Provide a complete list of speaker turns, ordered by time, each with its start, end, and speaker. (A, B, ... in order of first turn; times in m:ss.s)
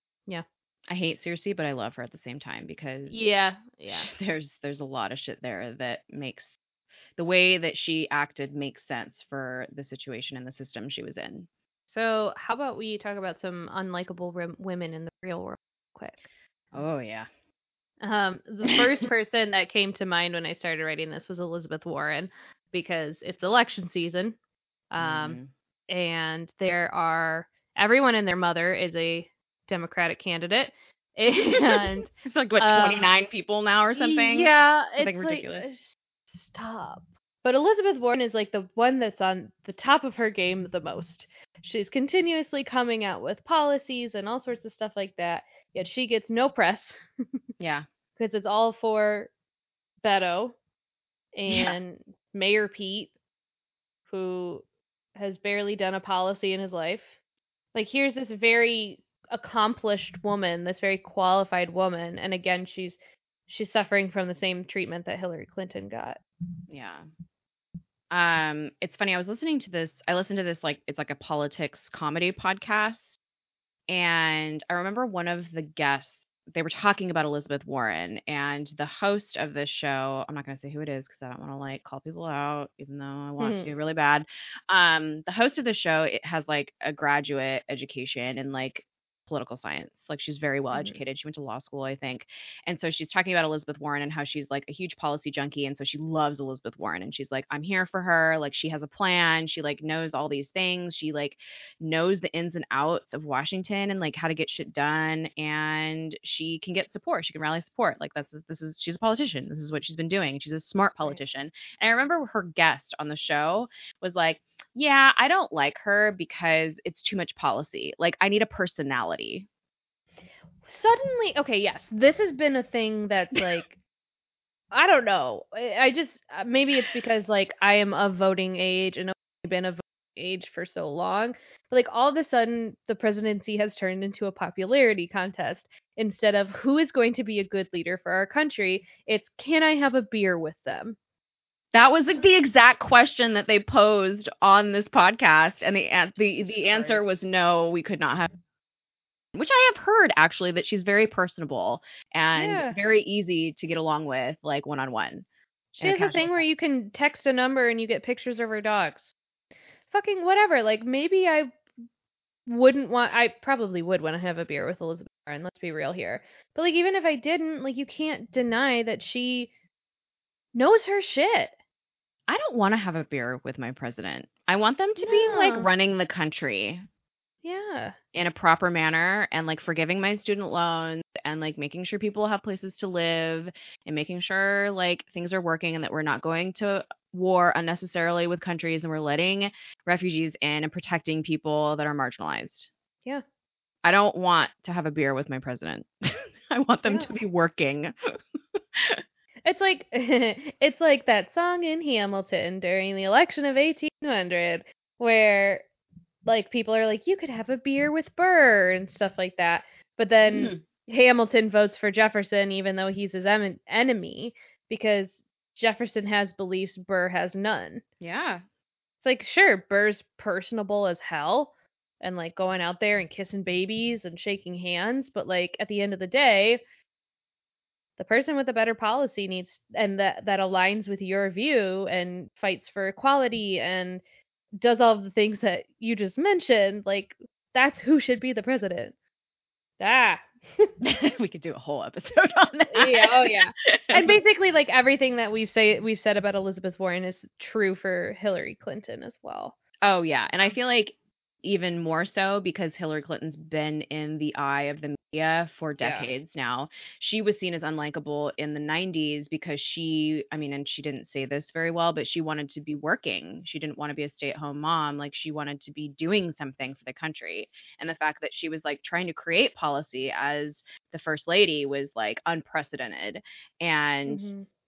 0:00.9-0:03.2 A
0:03.1-0:04.1 B
0:03.9-0:06.6 A
0:07.2-0:11.5 A
0:11.9-0:16.3 B
0:16.7-0:17.3 A
0:18.0-0:24.4 B
0:24.9-0:33.1 B
0:25.0-0:25.5 A
0:31.7-0:35.8 A
0:33.9-0:47.0 B
0:47.6-0:47.9 A
0:48.2-0:49.3 B
0:50.0-0:50.6 B
0:51.4-0:53.1 B
0:51.5-0:51.8 A
0:54.1-0:54.6 B
0:55.2-0:57.2 B
0:57.7-1:06.2 B
1:06.7-1:07.1 A
1:08.1-1:13.2 A
1:13.9-1:59.5 A
1:23.4-1:23.7 B
1:30.7-1:31.0 B
2:00.6-2:03.8 B
2:04.7-2:21.0 B
2:21.7-2:28.3 A
2:26.4-2:27.0 B
2:29.3-2:36.5 A
2:32.4-2:32.8 B
2:35.8-2:39.1 B
2:39.9-2:41.6 B
2:42.5-2:49.5 B
2:50.5-2:51.5 B
2:52.3-2:56.8 A
2:55.0-2:55.7 B
2:57.4-2:58.0 B
2:58.1-3:12.7 A
3:13.8-3:17.9 A
3:16.8-3:17.1 B
3:18.6-3:19.0 A
3:19.5-3:25.7 B
3:26.3-3:37.8 B
3:30.3-3:30.6 A
3:38.0-3:38.4 A
3:39.0-3:46.6 B
3:48.0-3:54.0 B
3:54.6-3:59.0 B
3:59.8-4:00.7 B
4:00.8-4:04.2 A
4:02.7-4:09.6 B
4:09.8-4:34.3 A
4:15.8-4:16.1 B
4:34.1-4:34.5 B